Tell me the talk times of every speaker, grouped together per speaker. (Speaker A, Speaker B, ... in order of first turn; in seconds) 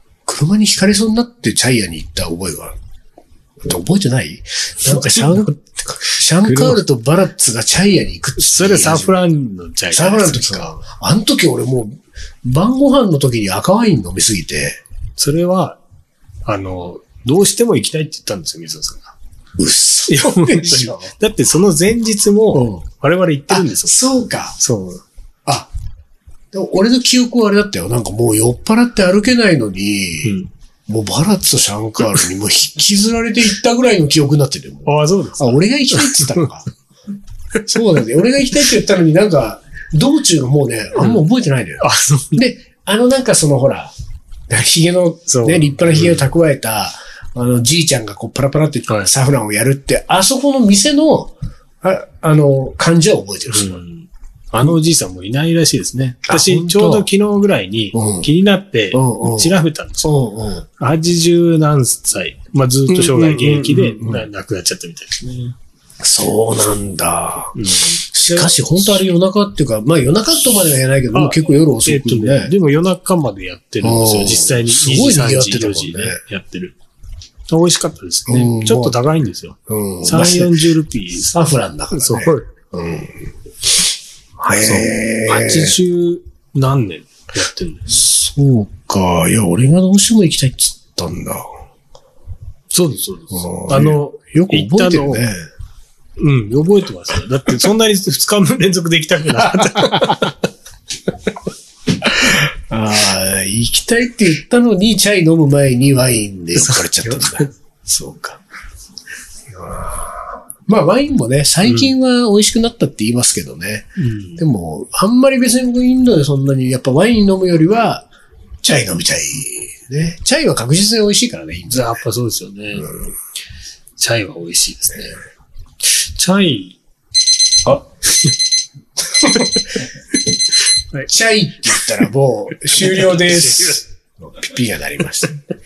Speaker A: 0.3-2.8, 3.7-5.5, 6.1-9.1, 9.9-14.8, 19.6-21.1, 22.5-22.8, 23.5-24.6, 25.5-25.7, 26.5-30.4, 30.9-36.7, 37.7-43.9, 44.5-53.8, 56.3-57.1, 57.9-58.3, 58.9-60.7, 62.9-64.3, 66.0-67.6, 68.1-72.5, 73.8-76.2, 78.3-79.0, 79.7-80.5, 81.2-83.3, 84.4-85.8, 87.9-91.5, 93.3-95.4, 99.5-100.2, 102.0-107.5, 109.5-118.1, 118.6-122.0, 122.8-123.1, 131.1-135.4
Speaker B: 4.8-6.8, 8.4-10.8, 15.2-15.8, 16.5-19.1, 20.1-24.0, 24.6-25.0, 30.2-30.5, 34.9-36.4, 41.8-42.4, 45.3-46.3, 53.5-60.1, 60.8-65.5, 67.5-69.1, 71.1-76.8, 77.5-81.4, 81.9-82.5, 84.6-88.0, 92.7-95.3, 96.2-100.4, 106.5-108.4, 111.7-111.9, 114.0-114.4, 121.7-122.9, 124.0-125.2, 125.8-126.8, 129.2-129.8, 132.8-133.8